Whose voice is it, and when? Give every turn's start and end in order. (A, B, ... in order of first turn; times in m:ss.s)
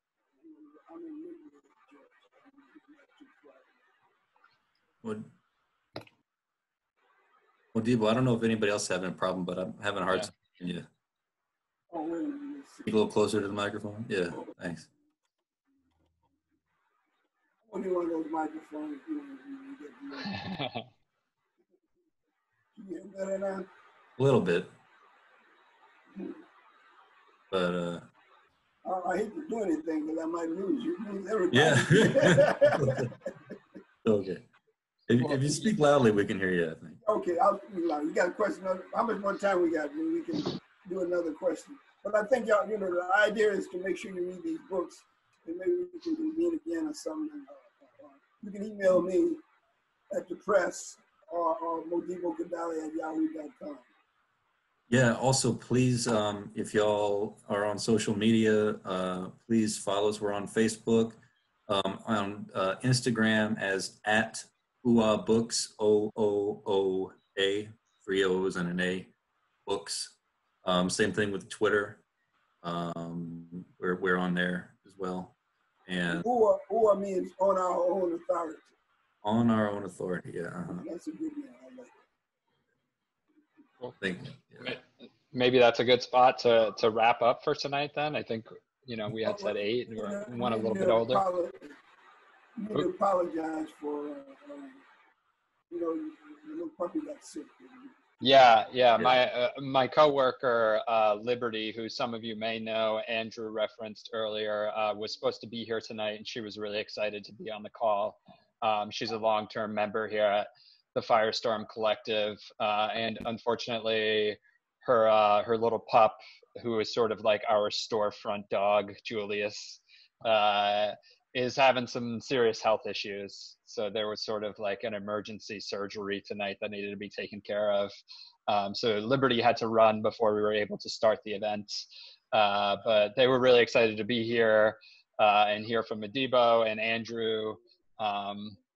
0:00.4-0:03.9 A
0:05.0-0:05.3 B
0:07.7-0:10.9 B
0:11.9-0:13.0 A
0:12.8-0:14.9 B
0:17.7-0:20.5 A
0:20.3-0:20.8 C
0:22.8-0:23.7 A
0:24.2-0:24.7 B
0:27.5-0:28.0 B
0:28.8-0:33.3 A
0:31.5-0:33.1 B
0:34.0-0:34.4 B
0:35.1-0:37.0 B
0:35.2-0:35.7 A
0:37.0-0:49.4 A
0:50.1-0:53.9 A
0:54.9-1:09.1 B
1:09.7-1:12.0 B
1:12.6-1:15.3 B
1:15.9-1:16.3 B
1:16.1-1:18.7 A
1:19.2-1:20.8 B
1:20.8-1:22.0 A
1:24.0-1:24.8 B
1:24.6-1:31.2 C
1:29.3-1:31.7 A
1:32.6-1:34.8 A
1:35.7-1:38.4 A
1:38.2-2:08.0 C
2:08.5-2:18.6 C